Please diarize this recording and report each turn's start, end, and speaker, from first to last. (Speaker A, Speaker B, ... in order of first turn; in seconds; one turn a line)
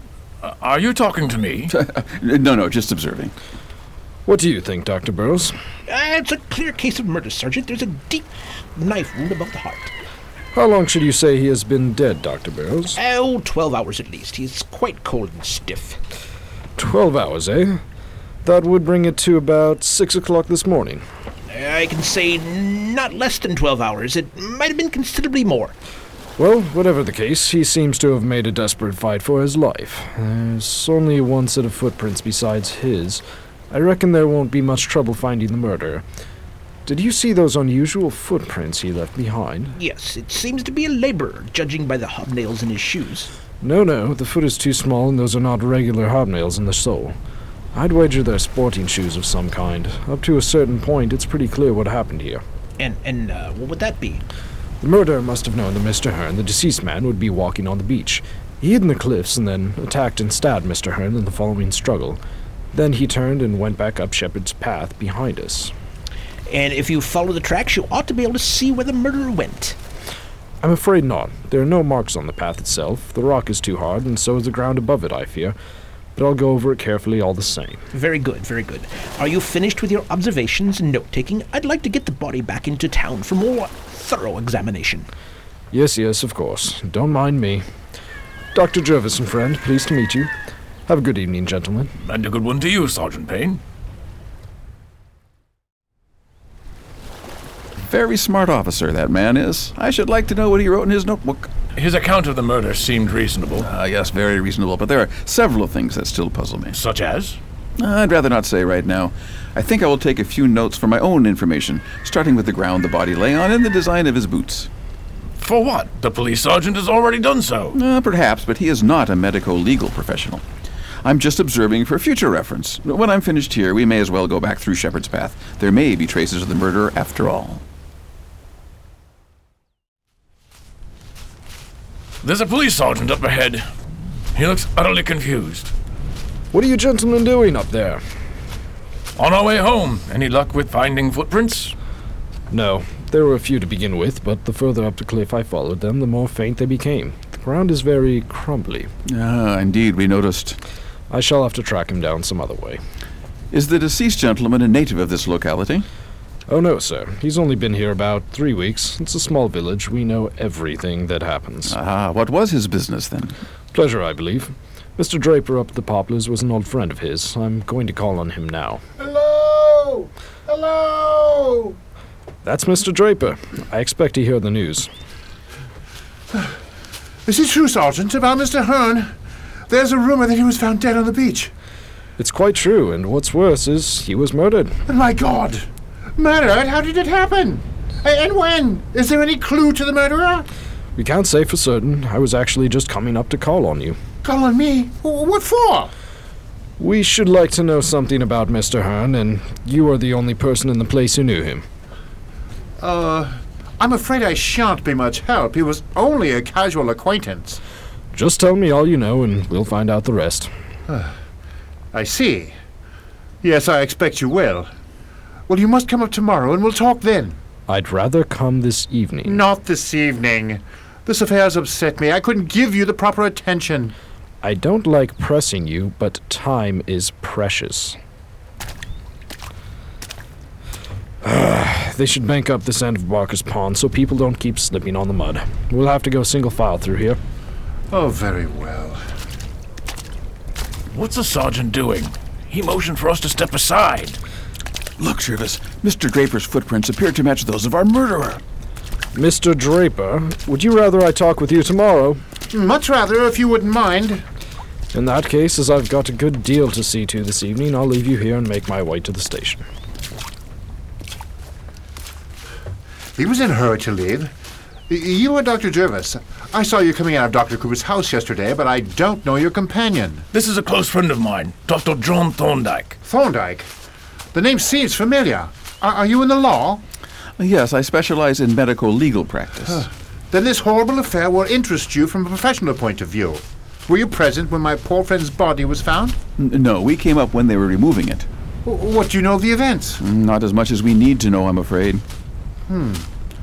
Speaker A: 0.4-1.7
Speaker B: 1.7-3.3
Speaker C: 4.3-5.5
Speaker D: 5.9-9.9
Speaker C: 10.5-13.0
Speaker D: 13.0-16.0
Speaker C: 16.8-17.8
Speaker C: 18.4-21.0
Speaker D: 21.5-25.7
Speaker C: 26.4-36.0
Speaker C: 36.9-39.8
Speaker D: 39.8-43.3
Speaker C: 43.6-47.1
Speaker C: 47.7-52.4
Speaker D: 52.8-54.2
Speaker C: 54.8-62.2
Speaker C: 62.7-65.7
Speaker D: 66.5-69.8
Speaker C: 70.6-75.5
Speaker C: 76.2-77.8
Speaker D: 77.9-85.1
Speaker C: 85.7-87.6
Speaker C: 88.5-90.3
Speaker C: 90.9-91.9
Speaker A: 92.0-93.6
Speaker B: 97.8-101.5
Speaker A: 101.7-103.7
Speaker B: 103.6-106.8
Speaker A: 106.7-107.4
Speaker B: 107.8-114.7
Speaker A: 115.4-117.8
Speaker B: 117.7-120.4
Speaker B: 121.0-127.6
Speaker A: 132.2-133.7
Speaker A: 134.3-135.7
Speaker C: 136.5-138.0
Speaker A: 139.2-141.8
Speaker C: 142.5-148.9
Speaker B: 149.1-150.6
Speaker C: 151.1-152.8
Speaker B: 153.5-155.8
Speaker C: 156.5-161.8
Speaker B: 161.7-163.4
Speaker C: 163.7-168.8
Speaker E: 169.0-171.8
Speaker C: 172.4-174.9
Speaker E: 177.3-179.1
Speaker E: 179.7-181.5
Speaker C: 182.2-184.8
Speaker E: 184.9-185.7
Speaker E: 186.2-190.5
Speaker C: 191.0-194.0
Speaker E: 194.2-195.9
Speaker C: 196.8-201.7
Speaker E: 202.8-207.6
Speaker C: 208.1-210.5
Speaker E: 210.9-211.1
Speaker E: 211.9-212.6
Speaker E: 213.4-214.7
Speaker E: 215.5-217.4
Speaker C: 217.7-219.4
Speaker E: 219.2-223.9
Speaker C: 224.4-228.0
Speaker C: 231.2-237.2
Speaker E: 237.9-239.0
Speaker A: 240.9-244.2
Speaker B: 245.0-248.4
Speaker C: 249.1-252.2
Speaker E: 252.5-254.2
Speaker C: 254.9-259.6
Speaker E: 263.2-264.3
Speaker E: 264.9-270.2
Speaker A: 270.3-273.0
Speaker E: 273.0-273.7
Speaker E: 274.3-276.8
Speaker B: 277.4-279.9
Speaker E: 279.7-286.2
Speaker B: 286.4-288.3
Speaker E: 288.6-290.0
Speaker B: 290.0-292.0
Speaker E: 292.7-293.1